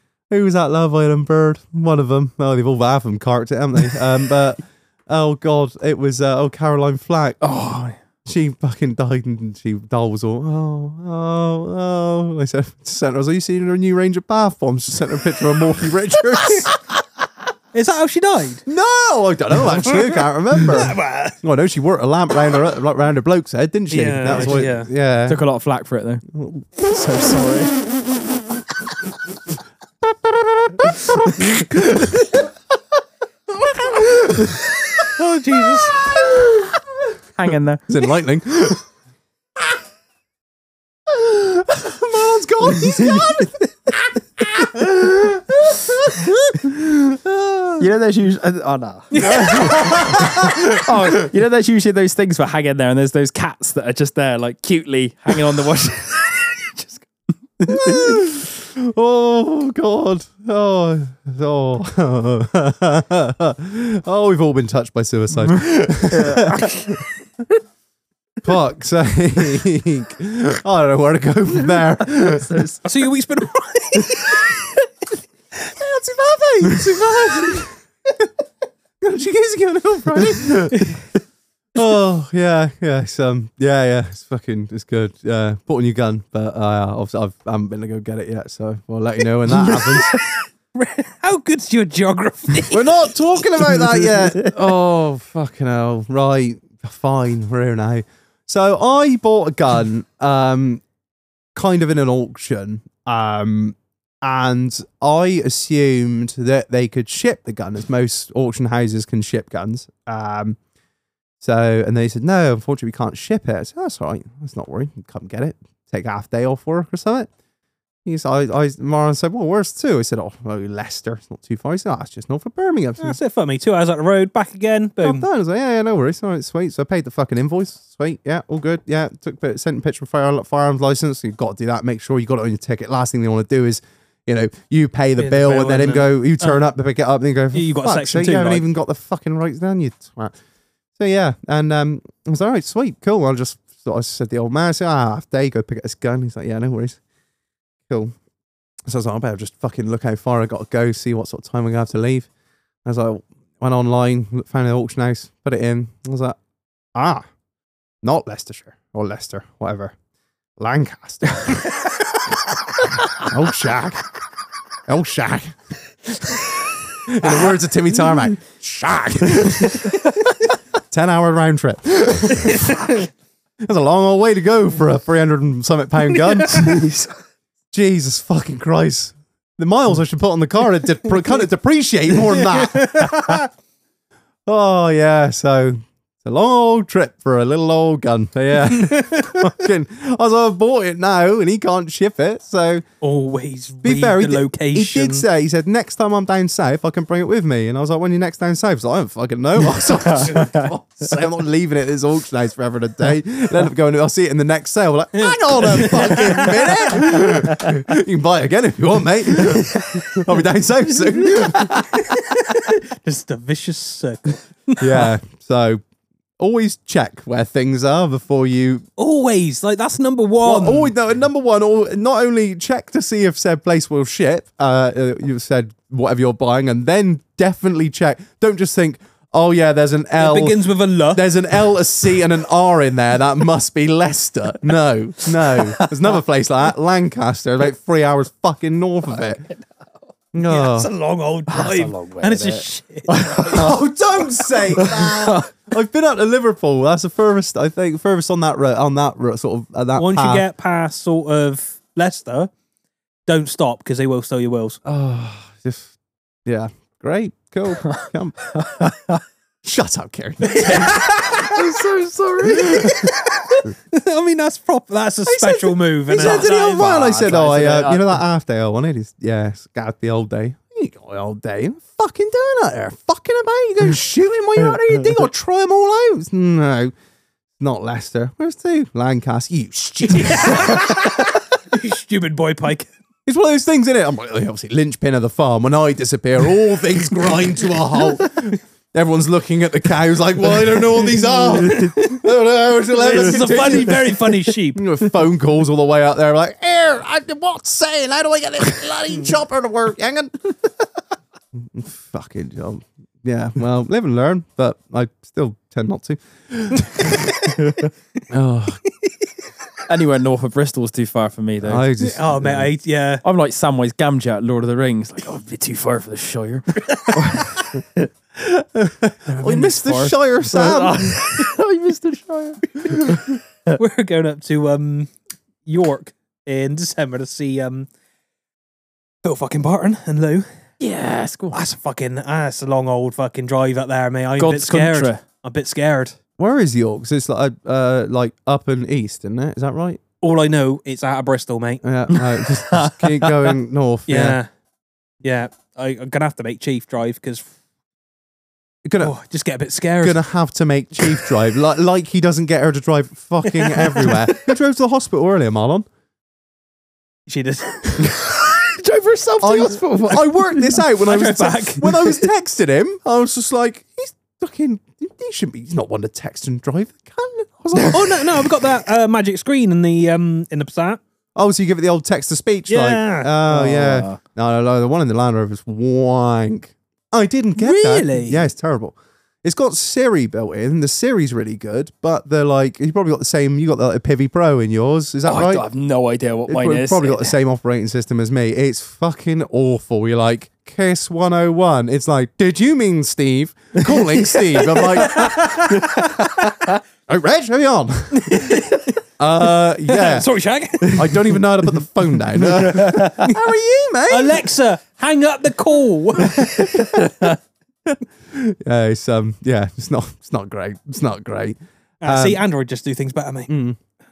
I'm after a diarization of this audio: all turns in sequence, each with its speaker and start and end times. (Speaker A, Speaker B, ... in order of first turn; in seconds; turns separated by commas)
Speaker A: 0.3-7.4, Speaker B: 7.4-8.0, Speaker A: 8.2-16.7, Speaker C: 17.7-18.6, Speaker A: 18.6-25.4, Speaker C: 19.9-21.4, Speaker C: 23.9-24.9, Speaker B: 24.3-24.6, Speaker B: 25.3-26.2, Speaker A: 26.3-26.9, Speaker B: 26.8-27.8, Speaker A: 30.1-32.3, Speaker B: 31.1-31.5, Speaker A: 33.8-34.5, Speaker C: 35.0-36.1, Speaker A: 36.0-36.5, Speaker B: 36.3-36.6, Speaker B: 37.4-37.9, Speaker A: 37.9-38.8, Speaker A: 41.1-47.9, Speaker B: 42.8-43.5, Speaker B: 47.8-57.1, Speaker C: 49.1-49.8, Speaker A: 49.2-51.3, Speaker B: 57.6-58.2, Speaker A: 57.6-67.1, Speaker B: 66.1-66.8, Speaker A: 68.4-72.7, Speaker B: 72.1-72.8, Speaker C: 72.8-74.7, Speaker A: 75.7-77.8, Speaker A: 79.0-81.0, Speaker A: 81.7-90.2, Speaker C: 89.7-92.9, Speaker A: 92.7-100.8, Speaker B: 93.6-94.5, Speaker A: 101.5-110.6, Speaker A: 111.4-117.3, Speaker A: 118.0-123.2, Speaker C: 123.0-125.2, Speaker A: 125.0-140.3, Speaker C: 135.2-136.5, Speaker C: 137.5-138.6, Speaker A: 141.0-147.0, Speaker A: 147.9-148.1, Speaker A: 148.9-152.3, Speaker A: 152.8-156.4, Speaker A: 156.9-157.2, Speaker A: 158.0-159.9, Speaker A: 160.6-161.7, Speaker A: 163.0-164.1, Speaker A: 164.9-165.6, Speaker A: 166.1-166.4, Speaker A: 167.0-170.0, Speaker A: 170.9-173.0, Speaker A: 173.6-176.8, Speaker B: 176.5-177.2, Speaker A: 177.7-183.4, Speaker C: 182.4-183.4, Speaker A: 184.4-192.8, Speaker C: 188.7-189.5, Speaker C: 193.0-195.2, Speaker A: 193.8-212.0, Speaker B: 199.9-200.7, Speaker C: 205.2-206.8, Speaker C: 211.5-215.1, Speaker A: 214.8-215.8, Speaker A: 216.4-218.8, Speaker C: 219.0-220.9, Speaker A: 220.4-239.4, Speaker C: 230.2-231.3, Speaker B: 235.4-235.9, Speaker B: 239.1-239.7, Speaker A: 240.3-240.9, Speaker C: 240.4-243.7, Speaker B: 241.5-243.8, Speaker A: 243.4-250.4, Speaker B: 244.5-245.5, Speaker C: 250.0-252.5, Speaker C: 253.3-254.8, Speaker A: 254.8-255.9, Speaker A: 256.4-258.4, Speaker B: 258.5-259.2, Speaker A: 259.6-261.5, Speaker B: 260.5-263.1, Speaker C: 262.7-267.5, Speaker A: 262.7-263.0, Speaker A: 265.2-276.9, Speaker B: 266.1-268.2, Speaker A: 277.6-280.9, Speaker C: 280.1-282.9, Speaker A: 283.2-294.1, Speaker C: 291.6-292.2, Speaker B: 291.6-291.9, Speaker C: 293.0-294.8, Speaker B: 293.1-294.0, Speaker A: 294.7-300.3, Speaker A: 301.6-307.4, Speaker B: 307.6-307.9, Speaker A: 308.3-308.8, Speaker B: 309.9-311.9, Speaker A: 311.6-312.7, Speaker C: 312.0-313.2, Speaker B: 313.2-318.1, Speaker A: 317.1-317.6, Speaker A: 318.4-321.4, Speaker B: 319.3-323.8, Speaker C: 323.7-325.1, Speaker C: 325.6-327.9, Speaker C: 329.2-330.4, Speaker B: 330.8-331.6, Speaker C: 331.5-336.2, Speaker B: 334.4-335.2, Speaker A: 336.4-340.0, Speaker C: 340.2-341.8, Speaker A: 341.8-344.4, Speaker B: 342.1-343.5, Speaker C: 344.1-344.5, Speaker C: 345.2-347.5, Speaker A: 348.9-349.1, Speaker C: 349.0-350.2, Speaker A: 350.0-355.9, Speaker C: 353.6-354.2, Speaker C: 357.3-358.2, Speaker B: 357.9-360.8, Speaker A: 359.4-368.4, Speaker C: 360.7-362.2, Speaker C: 367.9-371.0, Speaker A: 371.4-385.6, Speaker C: 372.7-373.3, Speaker B: 373.5-374.2, Speaker C: 377.6-378.4, Speaker B: 385.2-387.4, Speaker A: 386.5-398.6, Speaker B: 393.9-396.7, Speaker C: 398.1-399.0, Speaker A: 399.2-400.3, Speaker C: 399.9-401.4, Speaker A: 400.9-404.4, Speaker B: 402.6-403.3, Speaker C: 404.1-407.0, Speaker A: 406.3-407.3, Speaker A: 407.9-412.4, Speaker C: 412.0-413.5, Speaker A: 413.5-413.8